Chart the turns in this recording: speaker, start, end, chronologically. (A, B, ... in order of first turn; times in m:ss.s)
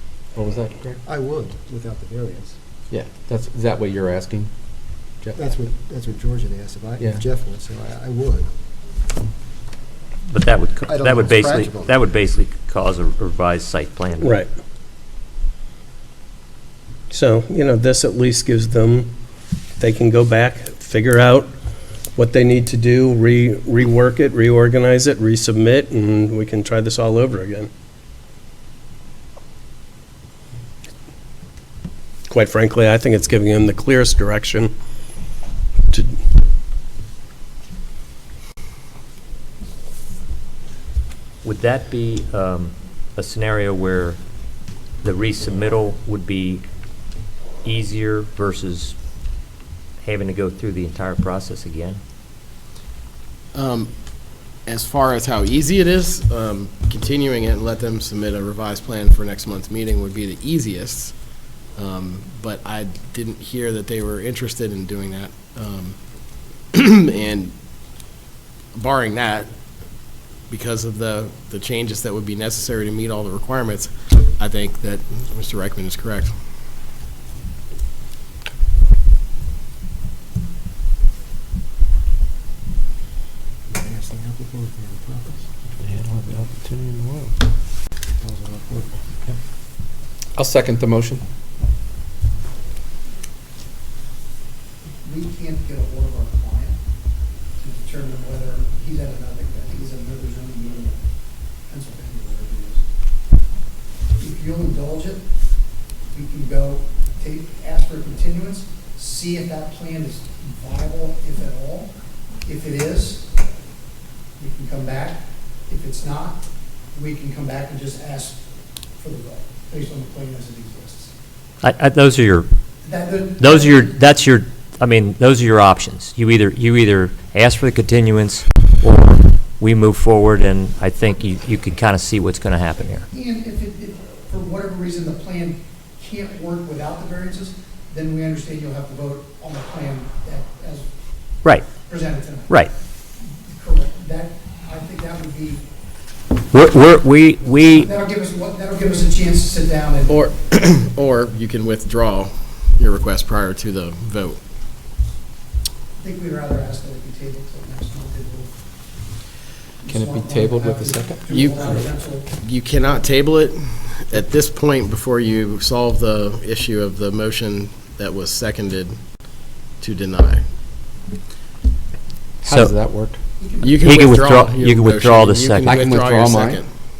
0:00.4-0:01.0 A
0:01.0-0:02.6 B
0:02.9-0:04.5 A
0:05.4-0:08.5 B
0:07.0-0:07.2 A
0:10.3-0:14.4 C
0:10.9-0:12.0 B
0:14.2-0:14.5 D
0:17.1-0:19.1 D
0:19.8-0:21.5 D
0:22.2-0:27.7 D
0:32.3-0:34.7 D
0:35.9-0:36.2 D
0:41.4-0:44.2 C
0:45.0-0:46.6 C
0:47.6-0:49.0 C
0:50.0-0:52.0 C
0:53.5-0:53.9 E
0:54.7-1:01.2 E
1:01.8-1:06.0 E
1:06.7-1:07.6 E
1:08.7-1:09.5 E
1:10.5-1:16.4 E
1:23.7-1:25.4 B
1:25.8-1:27.3 A
1:28.2-1:29.0 B
1:30.4-1:31.2 A
1:35.0-1:36.8 F
1:37.6-1:41.0 F
1:41.7-1:42.8 F
1:44.2-1:45.2 F
1:46.1-1:51.9 F
1:52.4-1:53.3 F
1:54.4-1:58.4 F
1:59.0-2:01.1 F
2:01.6-2:02.5 C
2:02.8-2:04.0 F
2:03.4-2:13.1 C
2:13.1-2:20.9 F
2:21.8-2:22.7 F
2:23.2-2:25.6 F
2:26.5-2:27.9 C
2:27.6-2:30.2 F
2:30.1-2:34.4 E
2:36.0-2:38.5 F
2:39.8-2:42.3 F
2:39.9-2:41.8 A
2:41.3-2:41.9 E
2:42.4-2:49.0 E
2:49.8-2:50.4 E
2:52.4-2:52.7 C
2:52.4-2:53.2 A
2:53.4-2:54.3 F
2:53.6-2:56.7 E
2:53.8-2:55.7 C
2:55.6-2:56.6 A